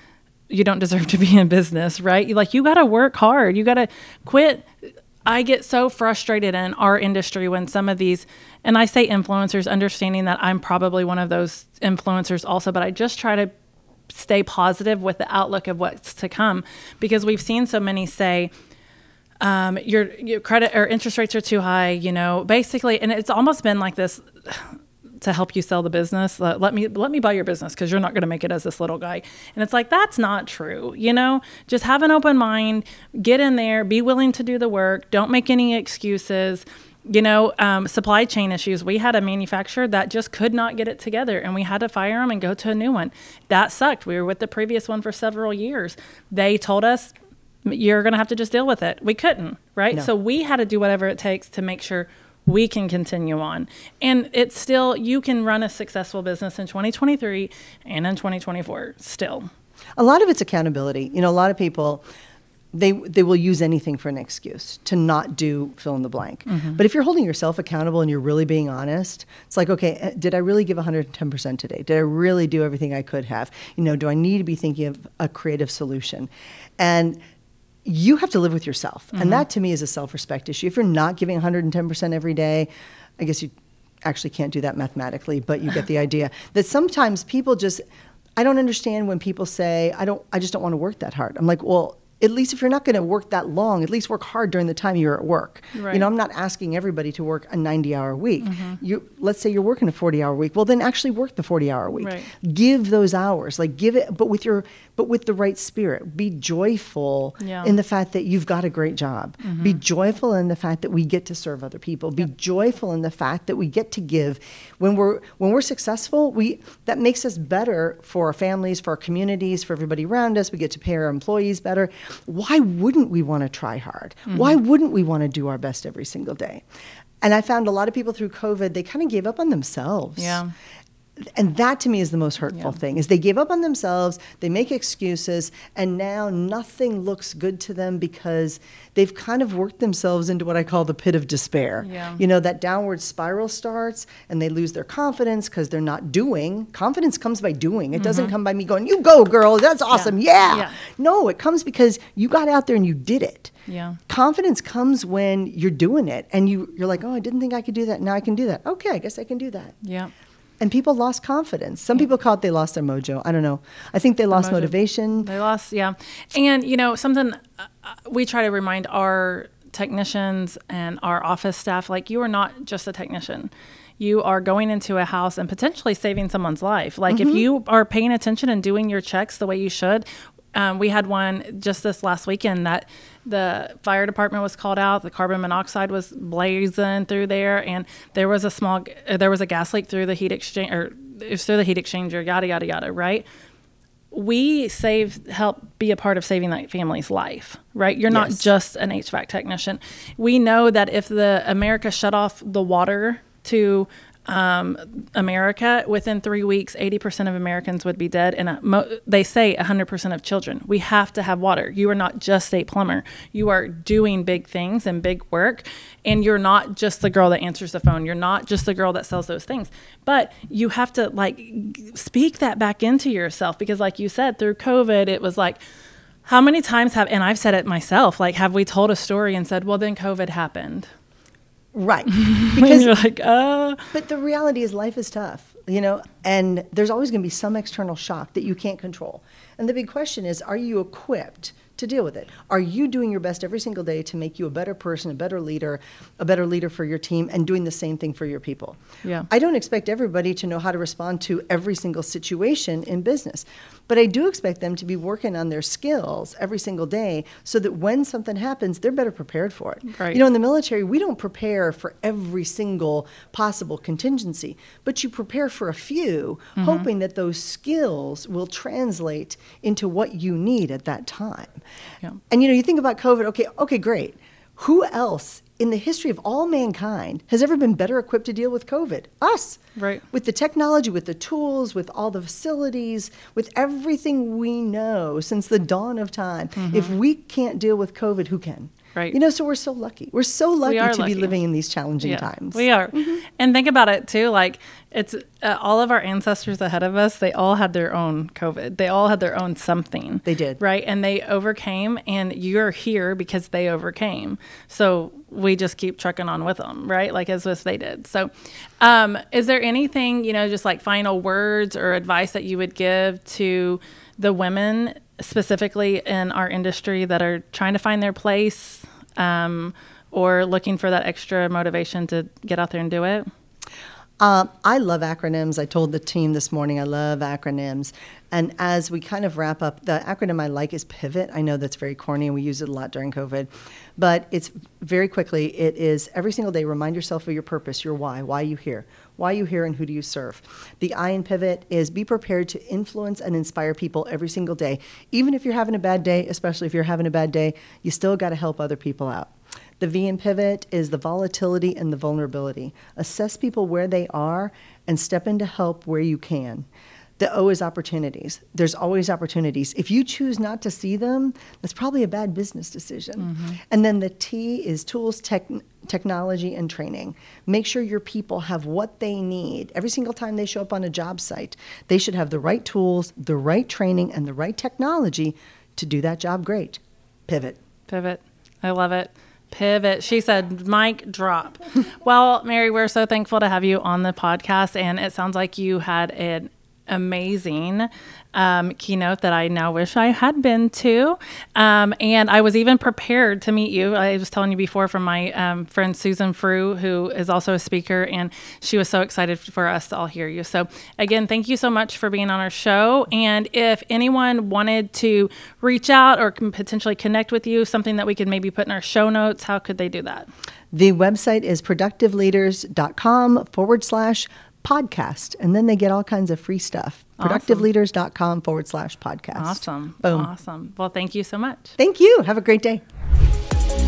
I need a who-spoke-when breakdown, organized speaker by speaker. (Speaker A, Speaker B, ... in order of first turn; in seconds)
Speaker A: 0.5-4.7, 5.2-13.5, 14.1-18.5, 19.4-47.1, 47.6-59.5, 66.5-66.8, 79.1-79.4, 95.7-96.0, 98.4-98.8, 101.9-102.3, 107.4-107.7, 109.4-109.8, 124.3-124.6, 130.2-130.5, 141.8-142.2, 147.9-148.3, 149.9-150.8, 153.7-154.0, 159.8-160.1, 164.3-193.2, 194.1-225.6, 226.2-230.9, 232.1-233.9, 259.9-260.2, 266.6-266.9, 279.8-280.0, 286.6-286.9, 290.7-291.4, 292.0-308.3, 308.8-323.3, 363.2-363.6, 377.9-410.3, 417.2-417.7, 419.4-421.8
Speaker B: 60.0-62.0, 62.7-77.2, 77.8-83.5, 84.0-87.8, 88.4-126.6, 127.2-130.4, 131.2-153.5, 154.1-159.7, 160.6-165.3, 177.1-177.4, 198.1-198.4, 231.7-232.9, 233.9-271.6, 272.3-279.6, 280.1-293.2, 300.2-300.6, 324.2-356.7, 357.2-377.6, 410.7-420.3, 421.8-422.8